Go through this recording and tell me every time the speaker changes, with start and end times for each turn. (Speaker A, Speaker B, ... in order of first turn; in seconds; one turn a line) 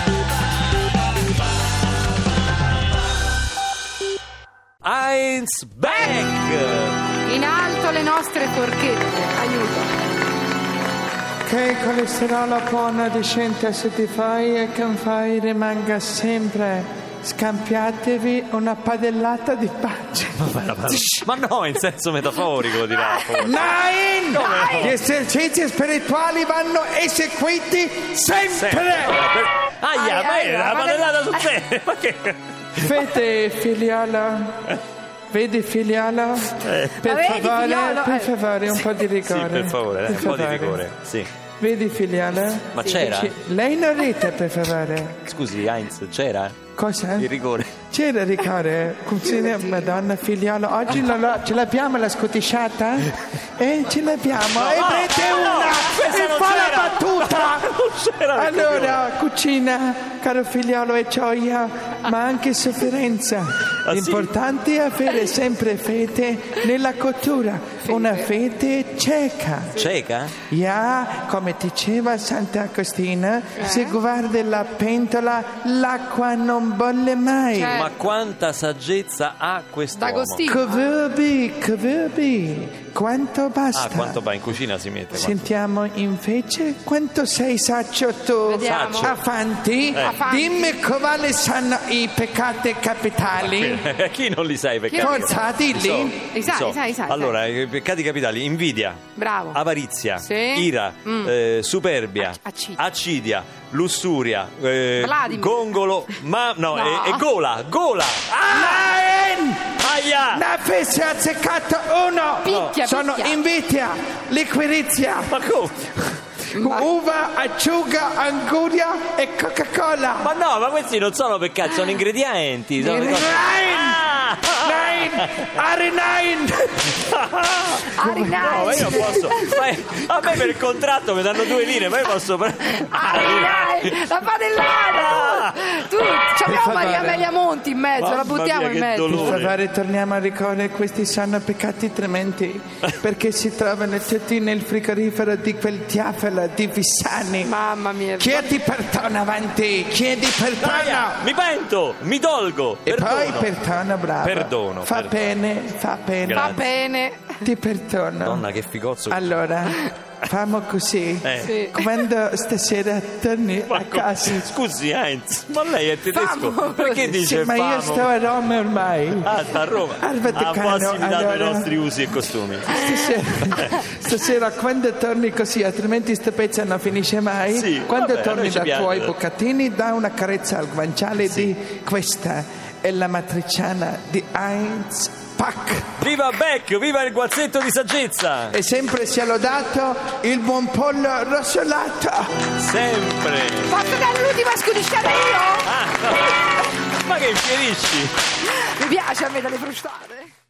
Speaker A: 4.8-7.0
Speaker B: 7.2-9.9
Speaker C: 11.4-21.2
Speaker A: 20.4-25.0
Speaker C: 23.4-29.2
Speaker A: 28.5-33.1
Speaker B: 29.9-31.4
Speaker C: 32.8-34.6
Speaker C: 35.3-40.8
Speaker A: 36.6-37.0
Speaker B: 37.0-38.3
Speaker A: 38.7-41.3
Speaker C: 41.6-45.2
Speaker A: 42.7-43.3
Speaker A: 45.2-46.6
Speaker C: 46.8-57.7
Speaker A: 47.2-47.7
Speaker A: 54.6-59.0
Speaker C: 58.3-69.8
Speaker A: 63.9-64.3
Speaker A: 69.7-70.3
Speaker C: 70.5-77.8
Speaker B: 73.6-73.9
Speaker B: 77.6-77.9
Speaker A: 77.7-80.6
Speaker B: 80.0-80.6
Speaker C: 80.4-84.2
Speaker A: 83.7-85.5
Speaker C: 85.1-93.8
Speaker B: 88.5-89.0
Speaker A: 88.6-89.2
Speaker A: 89.9-90.2
Speaker B: 90.1-90.8
Speaker A: 93.4-108.9
Speaker C: 94.9-96.2
Speaker B: 96.3-97.3
Speaker B: 99.2-99.6
Speaker B: 100.2-101.3
Speaker B: 102.2-102.8
Speaker B: 105.0-105.5
Speaker B: 106.7-107.2
Speaker C: 108.5-109.7
Speaker A: 109.8-110.4
Speaker C: 110.3-115.3
Speaker B: 112.5-113.3
Speaker A: 112.5-112.8
Speaker A: 115.3-116.2
Speaker B: 116.5-116.8
Speaker C: 116.5-120.3
Speaker A: 120.2-125.5
Speaker C: 122.8-127.1
Speaker A: 127.1-136.9
Speaker C: 127.9-129.4
Speaker B: 128.0-129.0
Speaker B: 132.9-139.1
Speaker C: 136.4-137.3
Speaker A: 138.0-139.6
Speaker C: 139.1-147.5
Speaker B: 147.4-148.5
Speaker C: 148.2-151.2
Speaker A: 150.6-153.5
Speaker C: 152.8-156.7
Speaker A: 154.2-155.3
Speaker A: 156.2-156.6
Speaker B: 156.4-157.4
Speaker C: 157.4-158.4
Speaker A: 158.2-159.4
Speaker C: 159.1-164.5
Speaker A: 161.2-161.7
Speaker A: 163.7-168.1
Speaker B: 166.1-166.9
Speaker C: 167.0-169.3
Speaker A: 169.2-173.8
Speaker C: 169.9-171.7
Speaker C: 172.7-186.0
Speaker A: 177.5-179.1
Speaker A: 186.0-188.6
Speaker C: 188.5-192.4
Speaker A: 192.6-194.0
Speaker B: 193.7-195.7
Speaker A: 195.6-198.1
Speaker B: 198.4-200.3